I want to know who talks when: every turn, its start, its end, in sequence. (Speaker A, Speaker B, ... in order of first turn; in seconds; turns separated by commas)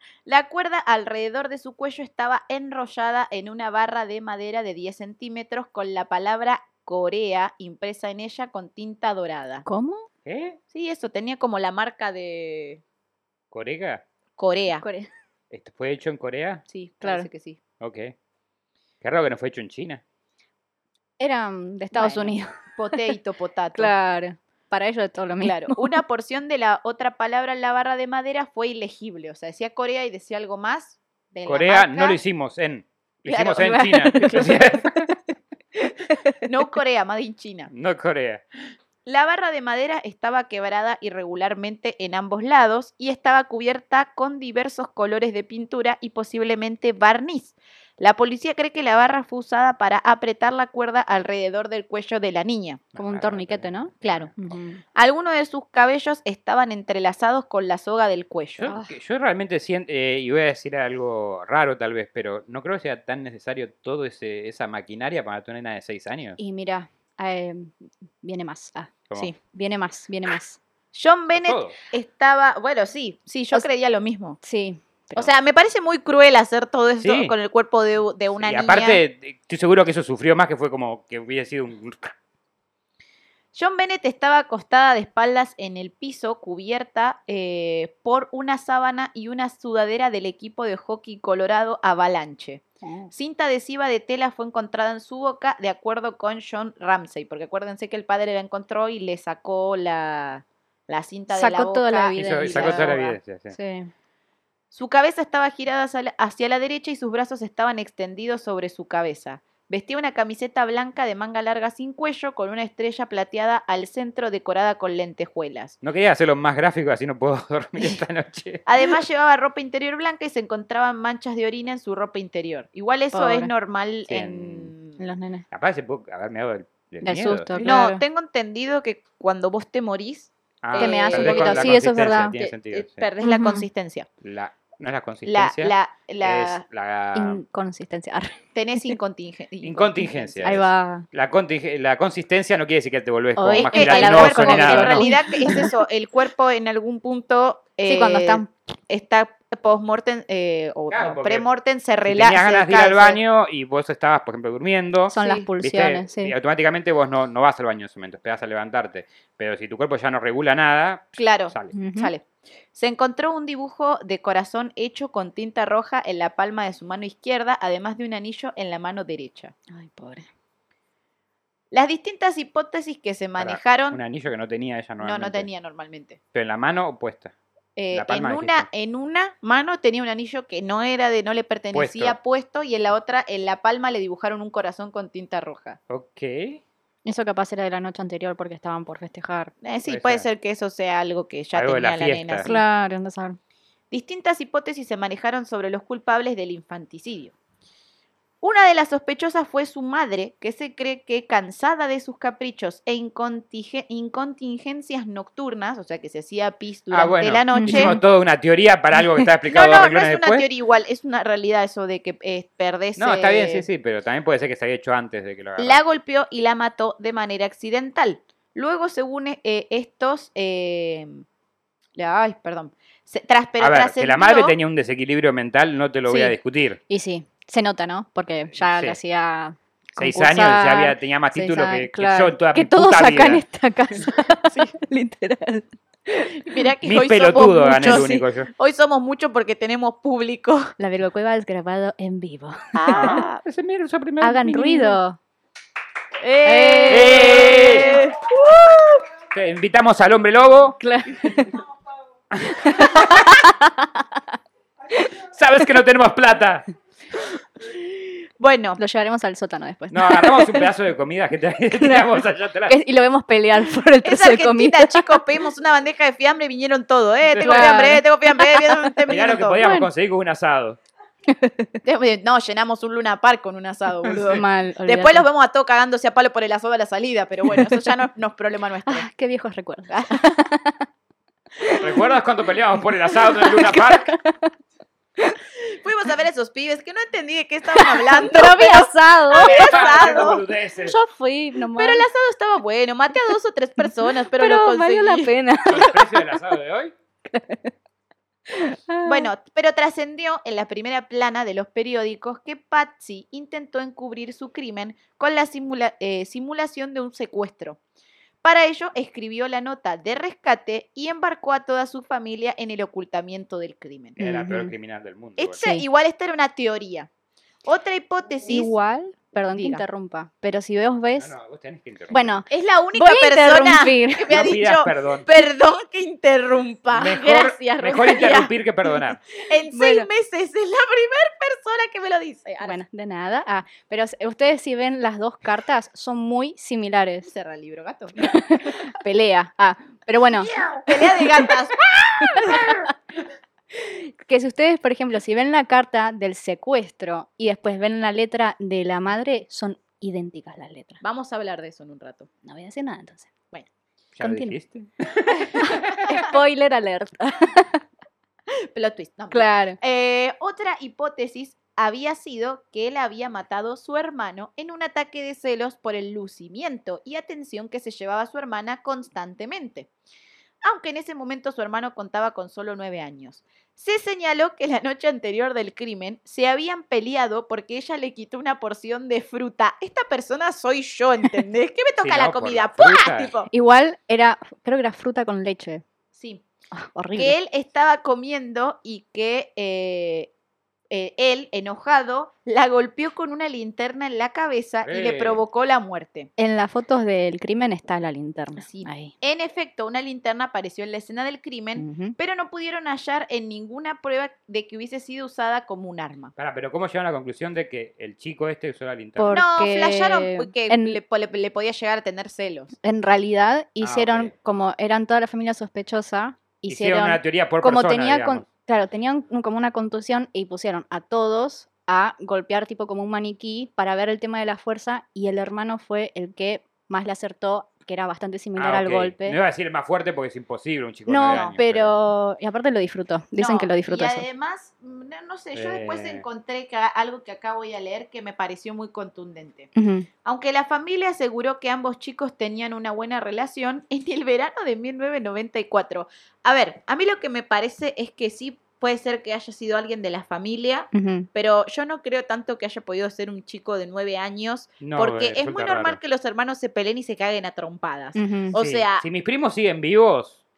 Speaker A: 0.3-9.6, Speaker B: 9.7-10.1, Speaker C: 10.2-10.6, Speaker A: 10.7-12.8, Speaker C: 13.5-14.0, Speaker A: 14.4-14.8, Speaker B: 14.8-15.1, Speaker C: 15.5-16.6, Speaker A: 16.7-17.6, Speaker B: 17.0-17.3, Speaker C: 17.8-18.1, Speaker C: 19.0-20.0, Speaker B: 21.2-22.5, Speaker A: 21.9-23.9, Speaker B: 23.8-25.9, Speaker A: 25.4-32.2, Speaker C: 31.5-35.1, Speaker A: 33.3-34.5, Speaker B: 33.5-35.1, Speaker B: 36.1-36.4, Speaker A: 36.4-37.7, Speaker C: 37.7-38.4, Speaker A: 39.1-52.8, Speaker C: 52.9-54.3, Speaker B: 53.0-54.8, Speaker A: 54.0-54.3, Speaker A: 55.0-58.7, Speaker C: 58.6-66.4, Speaker B: 58.6-58.9, Speaker B: 66.4-70.6, Speaker A: 70.9-74.4, Speaker C: 71.3-71.8, Speaker B: 74.4-75.3, Speaker A: 75.2-79.0, Speaker C: 77.0-77.3, Speaker C: 78.4-82.1, Speaker A: 83.5-103.0, Speaker B: 92.8-93.1, Speaker B: 101.3-103.9, Speaker C: 102.2-103.5, Speaker A: 104.7-115.8, Speaker C: 115.8-118.6, Speaker A: 118.7-125.0, Speaker B: 123.1-123.5, Speaker C: 124.1-124.7, Speaker B: 125.0-125.5, Speaker C: 125.5-127.6, Speaker B: 127.0-128.0, Speaker A: 127.6-131.9, Speaker C: 130.6-133.1, Speaker B: 130.8-132.4, Speaker A: 132.4-134.1, Speaker B: 133.2-133.7, Speaker C: 134.2-137.4, Speaker A: 135.2-136.6, Speaker B: 137.1-139.0, Speaker A: 138.6-140.6, Speaker C: 139.6-145.2, Speaker B: 140.4-141.1, Speaker B: 143.4-145.7, Speaker A: 143.6-153.2, Speaker B: 147.9-148.5, Speaker C: 150.9-151.5, Speaker C: 152.1-161.7, Speaker B: 155.1-156.3, Speaker A: 155.1-155.5, Speaker A: 161.2-169.5, Speaker B: 161.7-162.1, Speaker B: 169.7-170.3, Speaker A: 171.7-174.0, Speaker C: 173.4-175.5, Speaker A: 175.0-176.2, Speaker C: 176.3-177.3, Speaker A: 177.8-185.8, Speaker C: 177.9-178.7, Speaker C: 181.7-182.2, Speaker C: 185.9-186.6, Speaker B: 187.1-189.5, Speaker A: 189.6-192.6, Speaker C: 189.9-190.3, Speaker C: 191.5-192.5, Speaker B: 192.4-193.4, Speaker A: 193.9-197.3, Speaker A: 198.4-208.0, Speaker C: 206.9-210.5, Speaker B: 207.5-208.0, Speaker A: 209.5-213.7, Speaker C: 213.0-215.8, Speaker A: 215.6-221.2, Speaker A: 222.0-224.6, Speaker C: 223.6-226.8, Speaker B: 226.1-226.3, Speaker B: 226.9-236.6, Speaker C: 228.6-229.0, Speaker C: 230.0-233.4, Speaker A: 236.3-240.7, Speaker C: 236.8-238.5, Speaker B: 237.8-238.2, Speaker B: 240.8-243.2, Speaker A: 242.8-243.4, Speaker C: 242.9-245.0, Speaker B: 244.2-245.2, Speaker A: 246.2-249.0, Speaker B: 246.4-248.1, Speaker C: 246.9-247.9, Speaker C: 249.3-250.8, Speaker B: 250.8-251.6, Speaker B: 252.5-254.2, Speaker C: 255.3-256.6, Speaker A: 257.7-258.8, Speaker B: 258.8-260.7, Speaker C: 259.9-262.8, Speaker B: 261.6-265.2, Speaker A: 264.0-269.6, Speaker C: 267.3-267.6, Speaker B: 267.4-269.9, Speaker C: 269.1-270.8, Speaker B: 271.3-271.7, Speaker A: 271.8-279.1, Speaker C: 274.0-274.4, Speaker B: 274.2-275.3, Speaker B: 277.5-277.9, Speaker B: 278.9-280.9, Speaker A: 279.9-280.3, Speaker B: 281.6-281.9, Speaker C: 281.8-284.1, Speaker B: 283.1-284.5, Speaker A: 285.6-290.4, Speaker B: 287.8-292.1, Speaker C: 289.4-291.0, Speaker A: 291.7-295.3, Speaker B: 293.8-296.2, Speaker C: 295.7-296.9, Speaker B: 297.3-297.7, Speaker B: 298.5-299.3, Speaker A: 299.0-307.8, Speaker A: 308.4-314.2, Speaker B: 314.2-314.7, Speaker C: 314.2-315.6, Speaker A: 315.4-317.1, Speaker B: 315.6-315.9, Speaker A: 317.6-318.7, Speaker B: 318.5-321.3, Speaker A: 319.5-319.8, Speaker C: 321.1-322.4, Speaker B: 322.1-324.5, Speaker A: 322.5-328.5, Speaker C: 324.3-325.3, Speaker C: 326.9-329.2, Speaker A: 329.3-332.8, Speaker B: 329.7-330.1, Speaker B: 332.6-337.3, Speaker A: 337.3-338.8, Speaker B: 338.1-341.5, Speaker A: 340.4-342.9, Speaker B: 342.2-342.9, Speaker B: 343.7-351.0, Speaker A: 351.0-352.3, Speaker B: 352.4-353.3, Speaker B: 354.2-354.6, Speaker C: 354.2-356.0, Speaker B: 355.3-357.8, Speaker A: 356.0-356.3, Speaker A: 358.7-369.9, Speaker B: 359.3-359.8, Speaker A: 370.6-383.5, Speaker C: 382.0-383.3, Speaker B: 383.5-385.8, Speaker A: 386.1-386.4, Speaker B: 386.7-387.4, Speaker A: 387.1-390.3, Speaker A: 390.9-396.3, Speaker C: 394.8-395.4, Speaker B: 396.4-399.1, Speaker A: 398.6-406.3, Speaker B: 401.8-402.1, Speaker C: 406.4-409.4, Speaker B: 409.2-411.0, Speaker A: 409.3-412.7, Speaker B: 412.8-429.4, Speaker C: 413.8-414.3, Speaker C: 416.7-418.4, Speaker C: 428.6-431.9, Speaker B: 431.1-434.2, Speaker A: 433.4-439.7, Speaker C: 435.6-436.2, Speaker B: 439.8-440.1, Speaker A: 440.2-459.0, Speaker B: 450.9-451.3, Speaker C: 454.8-456.0, Speaker B: 458.1-458.5, Speaker C: 458.5-460.4